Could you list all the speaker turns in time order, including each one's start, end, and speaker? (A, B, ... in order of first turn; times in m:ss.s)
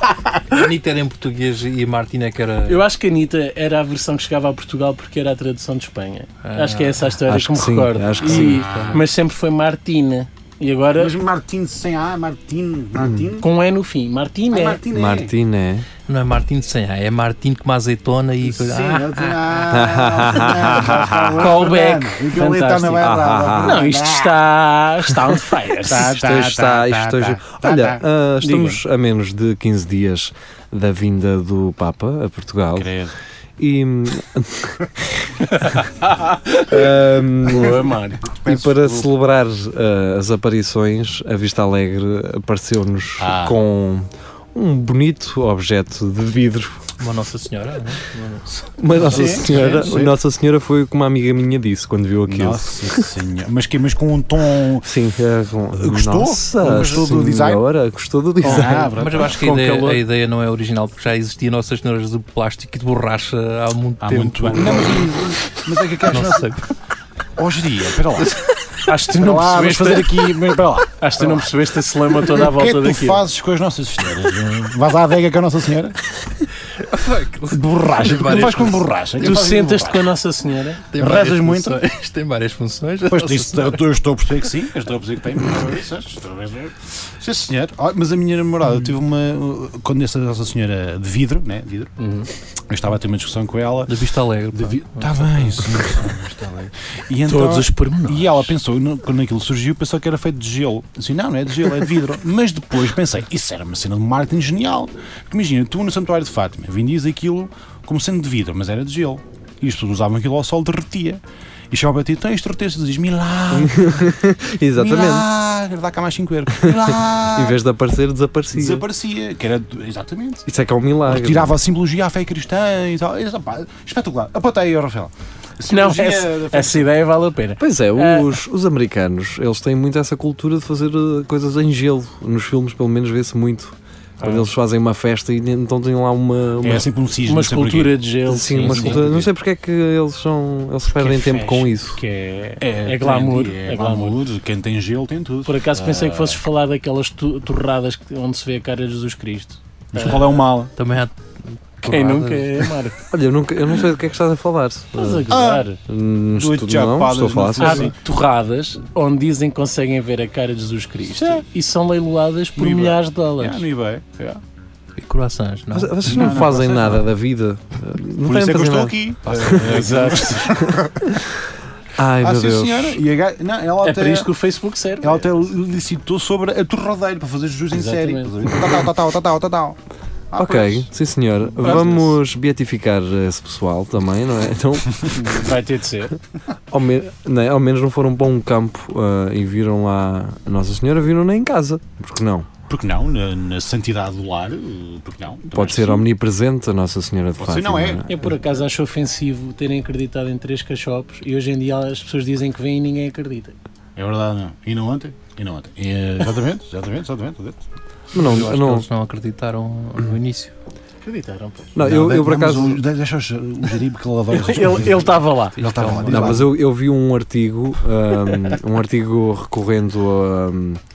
0:00.5-0:02.8 A
0:02.7-0:11.2 B
0:06.4-0:07.1 A
0:07.3-0:08.6 C
0:08.3-0:09.0 A
0:11.0-0:13.5 D
0:13.4-0:14.8 B
0:14.5-0:15.4 D
0:14.9-0:15.9 C
0:16.1-0:19.4 A
0:18.4-0:24.4 D
0:19.7-0:21.4 C
0:21.4-0:26.2 B
0:23.0-0:23.9 C
0:25.8-0:28.0 D
0:26.1-0:32.9 C
0:28.4-0:28.8 B
0:32.8-0:33.1 D
0:33.6-0:35.4 C
0:35.9-0:36.8 B
0:36.6-0:37.8 C
0:37.4-0:38.4 B
0:38.4-0:39.1 D
0:38.4-0:46.8 C
0:43.2-0:43.6 D
0:47.0-0:49.2 A
0:48.8-0:53.0 C
0:49.0-0:50.2 D
0:52.3-0:54.9 D
0:54.8-0:58.9 C
0:55.7-0:57.6 D
0:58.4-0:59.4 D
0:58.4-1:00.0 B
0:59.0-1:05.2 A
1:04.0-1:06.6 D
1:06.1-1:06.7 A
1:07.4-1:08.4 D
1:08.2-1:08.5 A
1:08.8-1:13.2 B
1:09.1-1:11.5 D
1:12.3-1:16.0 D
1:16.8-1:18.8 A
1:17.5-1:20.1 D
1:19.2-1:20.9 B
1:20.9-1:23.8 A
1:21.0-1:21.8 D
1:23.1-1:31.9 D
1:32.0-1:32.3 B
1:32.7-1:54.1 D
1:33.9-1:35.7 A
1:37.3-1:38.5 B
1:53.5-1:55.3 C
1:54.8-1:57.6 D
1:56.6-1:58.9 C
1:58.5-2:00.5 D
2:00.5-2:01.6 C
2:01.1-2:06.9 D
2:05.7-2:08.4 B
2:07.6-2:16.9 C
2:14.2-2:14.5 B
2:16.6-2:18.0 D
2:17.3-2:19.1 B
2:18.3-2:22.0 C
2:18.6-2:19.3 D
2:21.0-2:24.2 B
2:22.6-2:26.4 D
2:25.5-2:30.4 B
2:29.9-2:30.7 D
2:30.8-2:32.6 A
2:31.9-2:33.0 B
2:33.1-2:35.3 C
2:35.0-2:35.8 B
2:35.3-2:35.7 D
2:35.9-2:37.8 C
2:36.3-2:37.9 D
2:37.6-2:43.7 B
2:41.2-2:41.4 D
2:42.6-2:44.4 D
2:45.0-2:46.3 A
2:45.7-2:49.6 C
2:46.0-2:47.1 D
2:48.2-2:51.1 D
2:49.4-2:50.6 B
2:52.0-2:53.0 C
2:52.2-2:54.3 D
2:53.8-2:55.4 B
2:55.0-2:59.8 D
2:57.7-2:58.5 B
3:00.3-3:00.9 D
3:00.4-3:05.1 C
3:01.6-3:02.1 B
3:01.6-3:01.9 D
3:05.0-3:06.1 B
3:06.7-3:12.5 C
3:12.7-3:16.1 D
3:15.5-3:18.3 C
3:17.4-3:18.0 D
3:18.1-3:23.6 B
3:24.0-3:27.6 D
3:28.1-3:28.9 C
3:28.1-3:30.5 A
3:31.0-3:31.7 B
3:31.8-3:32.8 C
3:31.8-3:36.5 D
3:34.3-3:36.1 B
3:35.6-3:36.4 A
3:36.1-3:40.8 C